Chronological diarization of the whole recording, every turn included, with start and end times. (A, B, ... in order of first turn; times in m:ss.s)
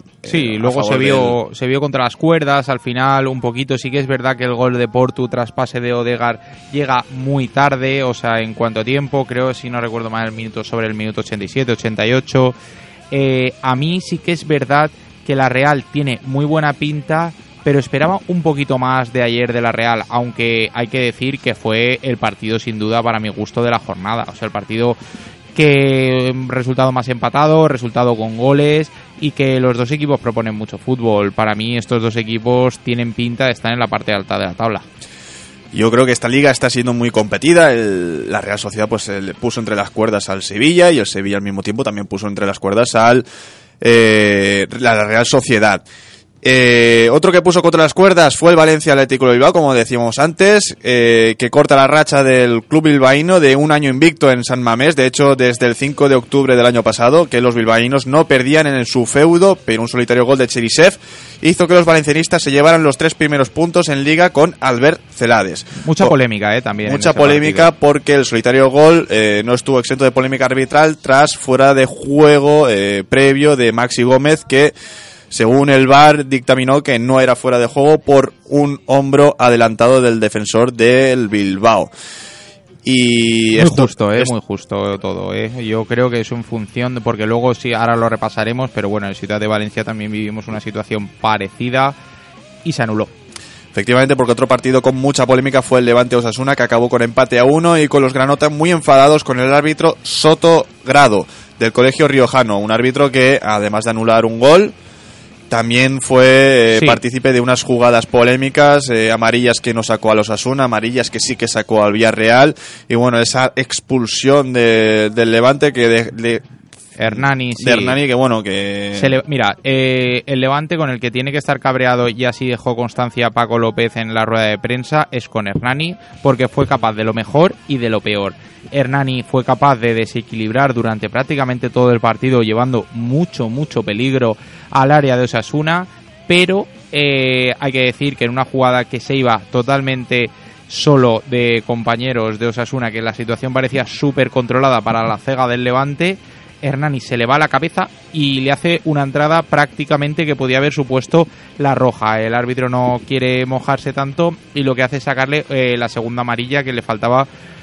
0:00.2-0:01.4 A
0:00.3-0:12.6 B
0:13.1-0:25.0 B
0:25.6-0:34.8 B
0:35.7-0:43.2 A
0:43.8-0:45.8 A
0:46.4-1:06.1 A
1:05.8-1:07.7 B
1:06.8-1:14.7 A
1:15.3-1:21.9 A
1:22.8-1:24.3 A
1:23.6-1:32.0 B
1:32.6-1:33.1 B
1:33.7-1:44.7 A
1:45.5-1:56.4 A
1:46.7-1:47.0 B
1:57.0-1:58.0 B
1:57.1-1:59.2 A
1:58.9-2:37.3 B